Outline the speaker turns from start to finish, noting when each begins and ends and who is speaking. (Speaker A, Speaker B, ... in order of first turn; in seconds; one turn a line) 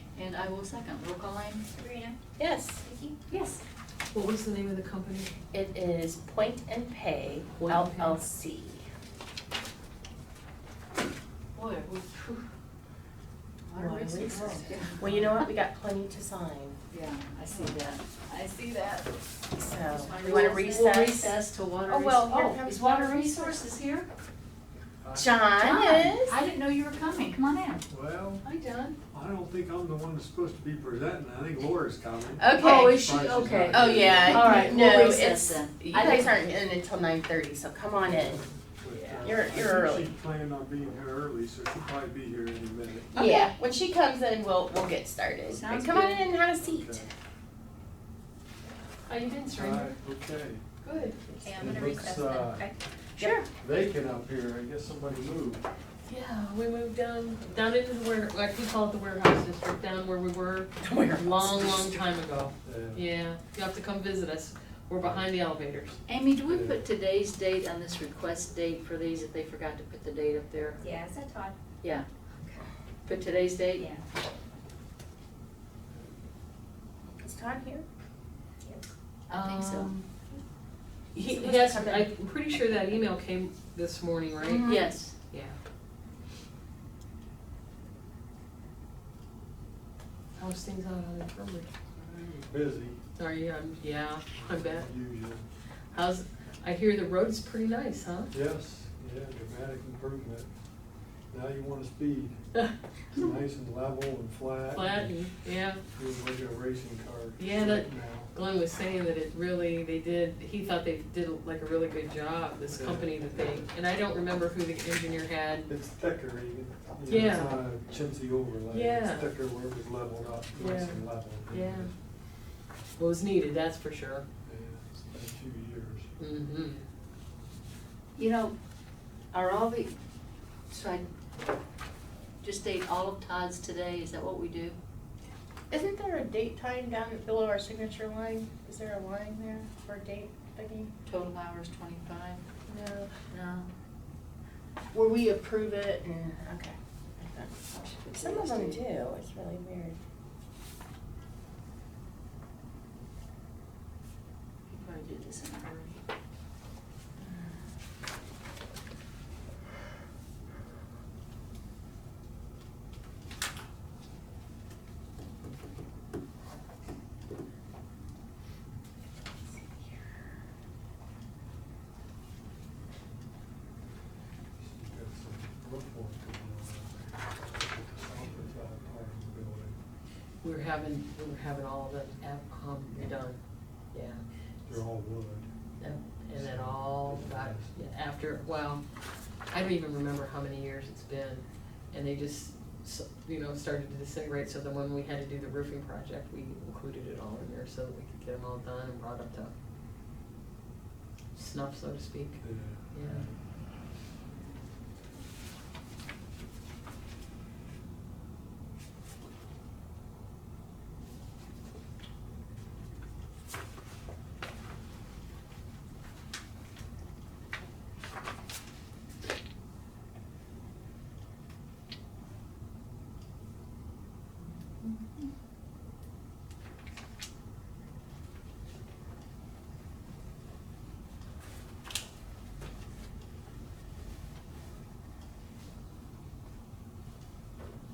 Speaker A: 0.1-2.1
Speaker B: 1.7-2.1
Speaker C: 2.4-2.8
Speaker B: 2.8-3.2
Speaker A: 3.3-3.6
Speaker D: 4.1-5.3
Speaker C: 5.5-8.8
Speaker D: 7.5-8.2
Speaker A: 11.5-12.4
Speaker A: 13.7-15.4
Speaker C: 13.7-16.8
Speaker D: 14.2-14.7
Speaker A: 16.9-19.1
Speaker C: 19.5-23.6
Speaker A: 19.8-24.1
Speaker E: 24.8-25.4
Speaker C: 25.1-26.4
Speaker A: 25.6-27.8
Speaker E: 27.9-28.4
Speaker D: 28.4-29.0
Speaker E: 29.1-34.7
Speaker C: 32.4-38.4
Speaker A: 32.6-36.3
Speaker D: 34.3-34.8
Speaker E: 38.1-43.1
Speaker A: 38.9-39.2
Speaker C: 39.2-40.1
Speaker C: 43.1-47.1
Speaker B: 43.1-43.5
Speaker A: 45.5-46.2
Speaker E: 46.6-47.1
Speaker D: 49.1-50.0
Speaker E: 49.5-50.6
Speaker D: 50.8-51.2
Speaker E: 51.3-52.6
Speaker B: 51.4-52.8
Speaker C: 53.2-53.4
Speaker A: 53.2-53.5
Speaker E: 53.6-55.6
Speaker D: 56.1-66.0
Speaker C: 60.8-62.1
Speaker E: 62.6-63.0
Speaker E: 65.0-65.3
Speaker A: 66.1-70.8
Speaker E: 66.4-66.8
Speaker B: 70.8-71.6
Speaker A: 71.8-72.1
Speaker A: 73.0-73.9
Speaker B: 73.8-74.0
Speaker C: 77.2-77.8
Speaker A: 79.3-80.1
Speaker D: 79.3-79.9
Speaker D: 81.1-84.7
Speaker C: 81.2-82.1
Speaker C: 84.4-84.9
Speaker A: 84.5-85.2
Speaker D: 85.3-85.5
Speaker D: 90.3-91.7
Speaker E: 92.0-93.0
Speaker D: 93.2-94.9
Speaker E: 94.3-95.4
Speaker D: 95.9-98.3
Speaker E: 98.3-100.5
Speaker E: 101.3-102.4
Speaker E: 103.1-105.1
Speaker D: 104.7-105.8
Speaker E: 106.0-108.3
Speaker D: 107.4-115.7
Speaker E: 112.7-113.7
Speaker E: 115.7-121.9
Speaker D: 117.1-117.6
Speaker D: 118.7-119.3
Speaker D: 120.5-121.9
Speaker D: 123.0-124.2
Speaker E: 124.5-126.1
Speaker D: 126.2-126.8
Speaker A: 128.2-128.5
Speaker A: 129.3-129.9
Speaker A: 130.7-131.1
Speaker A: 132.4-134.8
Speaker C: 135.7-140.9
Speaker A: 141.1-142.4
Speaker C: 142.7-143.1
Speaker A: 143.3-143.7
Speaker C: 144.9-147.5
Speaker A: 147.7-148.8
Speaker C: 148.1-150.0
Speaker A: 154.7-156.0
Speaker C: 157.2-157.5
Speaker E: 174.6-179.8
Speaker D: 180.4-183.4
Speaker D: 183.9-184.2
Speaker E: 184.7-185.5
Speaker D: 185.8-188.8
Speaker E: 186.3-187.7
Speaker D: 189.5-199.5
Speaker D: 201.3-203.3
Speaker E: 202.4-203.4